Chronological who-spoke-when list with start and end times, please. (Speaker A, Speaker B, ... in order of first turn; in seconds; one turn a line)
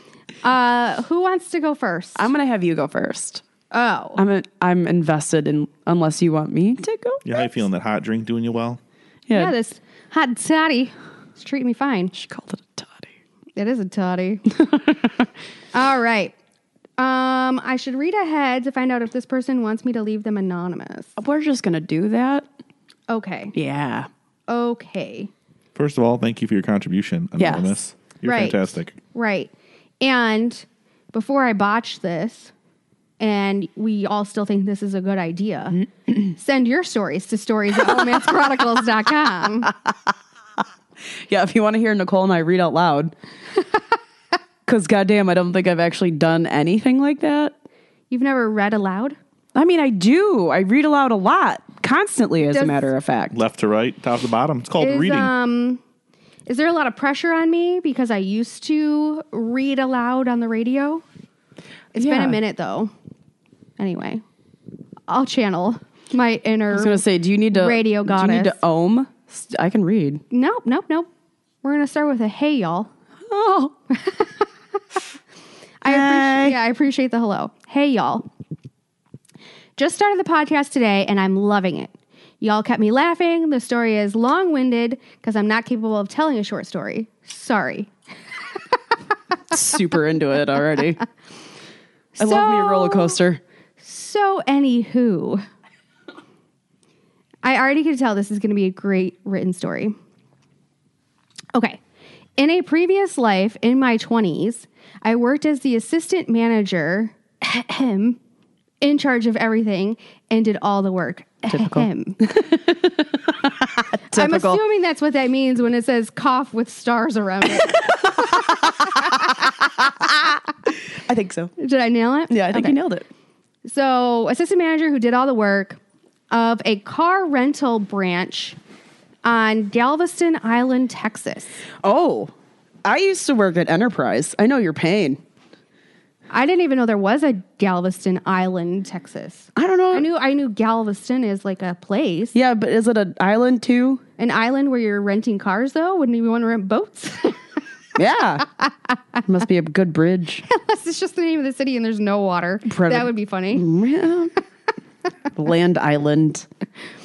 Speaker A: 0.4-2.3
Speaker B: 2.2-3.4
Speaker A: 3.7-4.2
Speaker B: 4.2-7.5
Speaker C: 7.2-8.8
Speaker B: 9.3-9.5
Speaker A: 9.3-12.1
Speaker B: 12.1-13.1
Speaker A: 13.6-14.4
Speaker B: 14.6-15.2
Speaker A: 15.7-16.3
Speaker A: 17.0-21.1
Speaker B: 21.2-22.5
Speaker A: 23.1-23.5
Speaker B: 23.5-24.1
Speaker A: 24.5-25.3
Speaker C: 25.8-28.9
Speaker B: 27.4-27.8
Speaker A: 28.2-32.5
Speaker A: 33.2-35.8
Speaker A: 36.3-39.7
Speaker B: 41.3-43.1
Speaker B: 44.7-47.5
Speaker A: 48.1-49.2
Speaker B: 49.5-53.4
Speaker C: 53.3-55.3
Speaker A: 54.8-55.8
Speaker A: 56.5-61.0
Speaker A: 61.9-62.9
Speaker B: 62.0-62.4
Speaker A: 63.8-64.2
Speaker A: 65.1-68.6
Speaker B: 66.7-70.2
Speaker A: 70.3-71.1
Speaker A: 71.6-72.9
Speaker B: 73.3-73.7
Speaker A: 73.9-74.5
Speaker A: 75.8-78.3
Speaker B: 75.8-76.6
Speaker A: 79.8-87.9
Speaker B: 89.5-91.0
Speaker A: 92.2-93.2
Speaker B: 92.2-93.4
Speaker A: 93.8-95.4
Speaker A: 97.4-100.0
Speaker A: 101.5-101.8
Speaker A: 102.4-108.2
Speaker A: 108.8-112.2
Speaker B: 111.5-114.6
Speaker A: 114.1-118.3
Speaker B: 117.7-120.2
Speaker B: 121.0-121.5
Speaker A: 121.6-122.8
Speaker B: 122.3-123.1
Speaker A: 123.7-125.8
Speaker A: 126.3-128.6
Speaker A: 129.2-131.6
Speaker B: 131.8-132.3
Speaker B: 132.8-135.2
Speaker A: 136.3-142.3
Speaker B: 139.6-140.1
Speaker B: 142.3-144.0
Speaker A: 144.2-147.4
Speaker B: 148.0-148.5
Speaker B: 149.2-150.5
Speaker A: 150.5-153.7
Speaker B: 152.7-154.3
Speaker B: 155.3-156.5